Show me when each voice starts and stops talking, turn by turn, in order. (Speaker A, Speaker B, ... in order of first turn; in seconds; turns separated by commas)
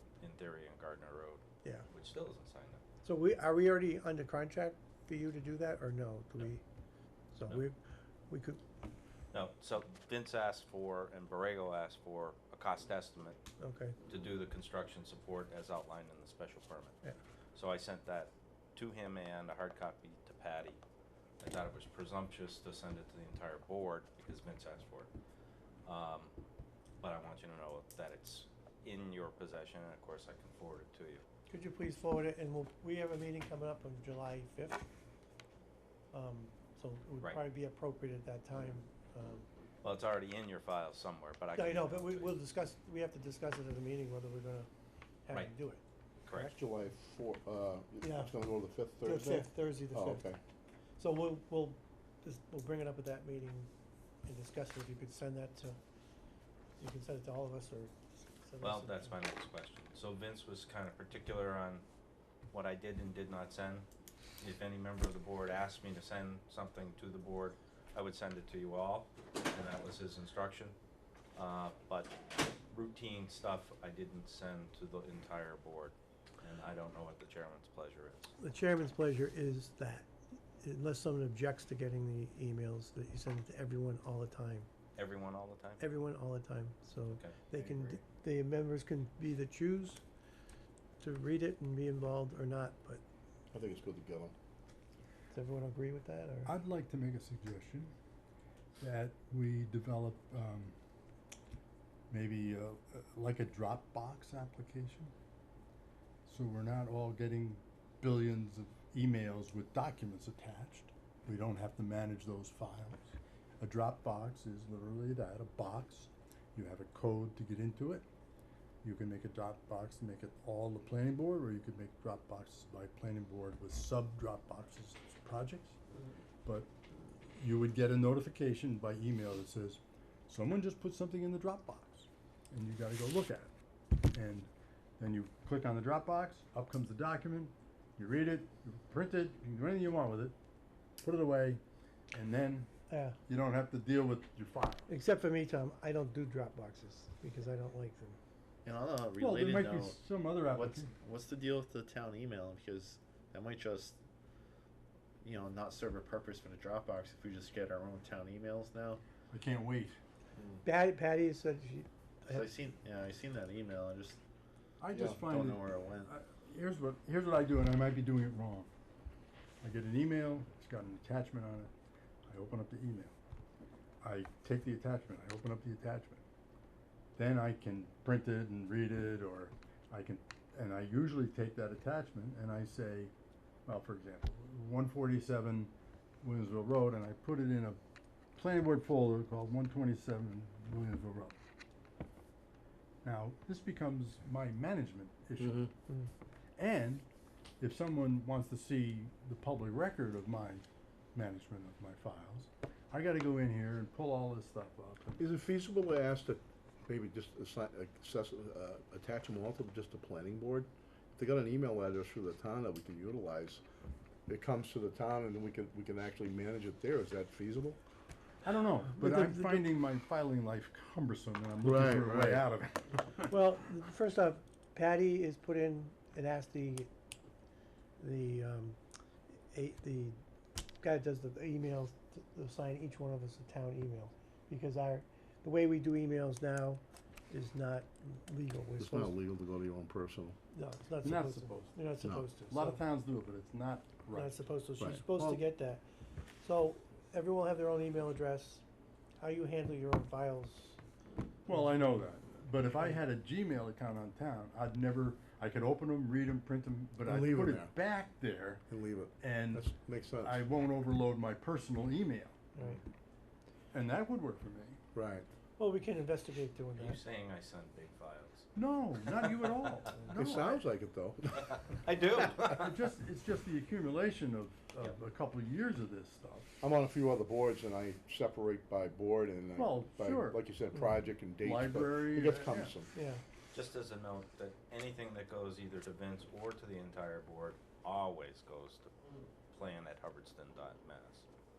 Speaker A: 0.2-2.8, Speaker B: 1.6-1.9, Speaker B: 3.0-6.6, Speaker B: 7.3-7.8, Speaker B: 8.3-8.6, Speaker A: 9.3-13.4, Speaker B: 13.6-14.0, Speaker A: 14.1-16.9, Speaker A: 17.5-20.8, Speaker A: 21.4-25.1, Speaker A: 25.8-26.3, Speaker A: 27.0-31.2, Speaker B: 31.5-34.9, Speaker B: 36.1-39.5, Speaker A: 39.8-42.3, Speaker B: 41.5-44.7, Speaker B: 45.2-45.8, Speaker A: 46.2-46.5, Speaker C: 46.5-50.4, Speaker B: 48.0-48.4, Speaker B: 49.0-50.3, Speaker B: 51.0-53.7, Speaker B: 54.2-55.8, Speaker B: 56.8-59.1, Speaker A: 58.6-61.9, Speaker A: 62.5-63.9, Speaker A: 64.4-70.8, Speaker A: 71.3-72.2, Speaker A: 72.7-78.3, Speaker B: 78.4-80.1, Speaker B: 80.6-84.7, Speaker A: 85.0-85.8, Speaker B: 85.8-90.0, Speaker A: 87.1-88.0, Speaker B: 91.0-93.0, Speaker C: 93.5-94.3, Speaker B: 95.3-96.5, Speaker D: 96.5-97.9, Speaker D: 98.8-100.8, Speaker D: 102.1-105.1, Speaker D: 106.2-118.0, Speaker D: 118.8-125.8, Speaker D: 126.4-126.7, Speaker D: 127.3-133.5, Speaker D: 134.1-140.3, Speaker D: 141.0-141.6, Speaker D: 142.1-142.7, Speaker B: 142.9-143.2, Speaker D: 143.3-144.8, Speaker B: 144.9-148.2, Speaker E: 148.6-153.9, Speaker D: 149.2-150.9, Speaker E: 155.2-159.0, Speaker D: 159.3-160.0, Speaker E: 160.4-160.6, Speaker B: 160.6-162.5, Speaker E: 162.3-164.2, Speaker D: 164.8-168.7, Speaker E: 164.9-166.1, Speaker D: 169.6-171.7, Speaker D: 172.3-173.1, Speaker D: 174.0-176.2, Speaker D: 177.2-183.1, Speaker D: 183.7-187.8, Speaker D: 188.3-191.3, Speaker D: 193.0-195.6, Speaker C: 195.4-195.7, Speaker D: 196.6-197.0, Speaker D: 197.6-205.2, Speaker C: 205.2-213.6, Speaker C: 214.3-217.8, Speaker D: 218.4-223.3, Speaker B: 218.9-219.7, Speaker C: 221.6-222.4, Speaker B: 223.3-226.9, Speaker B: 228.0-228.8, Speaker B: 229.5-230.2, Speaker B: 230.8-239.2, Speaker C: 238.8-240.4, Speaker B: 240.5-242.9, Speaker D: 241.0-244.3, Speaker C: 242.0-242.3, Speaker B: 244.1-245.8, Speaker C: 244.8-245.4, Speaker B: 246.4-248.6, Speaker B: 249.2-250.8, Speaker D: 251.4-258.6, Speaker B: 251.5-252.0, Speaker C: 257.0-257.7, Speaker C: 258.7-260.4, Speaker D: 259.2-262.4, Speaker B: 262.5-262.8, Speaker D: 263.7-264.8, Speaker C: 264.9-265.3, Speaker B: 265.6-267.0, Speaker A: 266.8-268.5, Speaker D: 268.5-270.6, Speaker A: 269.2-270.0, Speaker C: 270.1-271.8, Speaker A: 271.3-272.7, Speaker D: 272.3-276.5, Speaker C: 276.6-282.9, Speaker D: 279.5-280.4, Speaker D: 281.4-282.7, Speaker B: 282.9-283.2, Speaker A: 283.5-291.2